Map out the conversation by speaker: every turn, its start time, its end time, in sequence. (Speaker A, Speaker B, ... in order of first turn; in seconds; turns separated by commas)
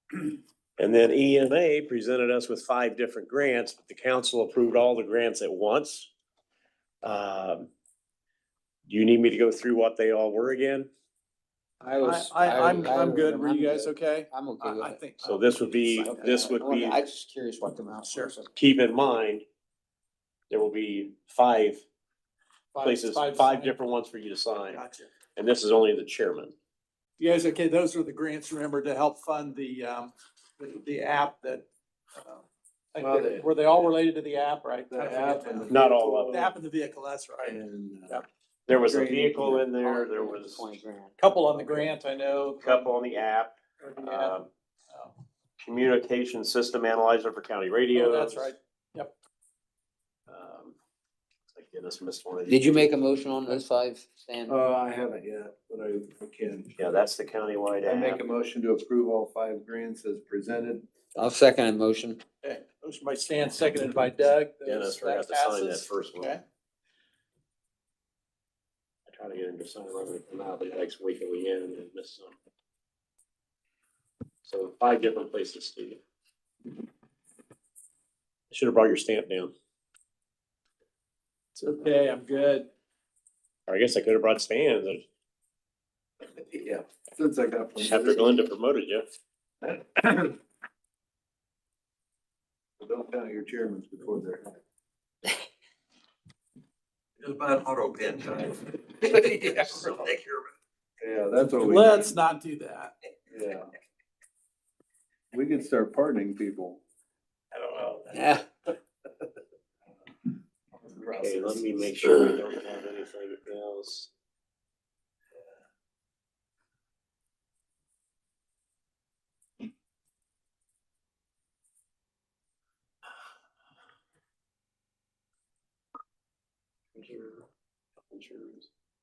Speaker A: 0.8-6.1, Speaker A: 7.0-7.7, Speaker A: 8.9-10.9, Speaker B: 11.8-15.0, Speaker C: 12.0-16.2, Speaker A: 15.2-17.0, Speaker B: 16.0-18.5, Speaker C: 18.1-18.3, Speaker A: 18.5-19.4, Speaker A: 20.5-21.8, Speaker C: 22.7-23.8, Speaker A: 22.8-24.8, Speaker C: 24.7-25.1, Speaker A: 25.4-26.5, Speaker C: 27.2-38.2, Speaker D: 33.0-33.5, Speaker D: 34.9-36.5, Speaker A: 35.7-36.5, Speaker D: 37.4-39.6, Speaker A: 38.7-40.6, Speaker B: 39.6-41.9, Speaker C: 41.2-42.9, Speaker A: 42.6-44.5, Speaker C: 43.8-44.4, Speaker A: 45.6-48.5, Speaker C: 47.9-49.1, Speaker A: 50.3-50.8, Speaker A: 51.5-53.0, Speaker B: 52.5-54.6, Speaker D: 54.5-56.7, Speaker A: 56.8-58.2, Speaker D: 57.8-60.9, Speaker B: 61.1-62.2, Speaker C: 62.4-66.4, Speaker A: 64.6-66.3, Speaker A: 69.1-72.3, Speaker A: 74.4-76.0, Speaker A: 78.5-79.5, Speaker C: 81.5-82.7, Speaker A: 83.7-85.0, Speaker D: 86.3-88.4, Speaker A: 87.8-89.0, Speaker D: 89.6-90.3, Speaker D: 92.8-94.6, Speaker E: 97.2-100.5, Speaker D: 101.0-102.1, Speaker C: 101.6-102.9, Speaker D: 103.3-103.7, Speaker D: 105.3-106.8, Speaker C: 107.5-108.2, Speaker B: 108.1-108.4, Speaker D: 110.8-111.6, Speaker A: 111.2-114.1, Speaker A: 126.9-127.5, Speaker A: 128.1-128.7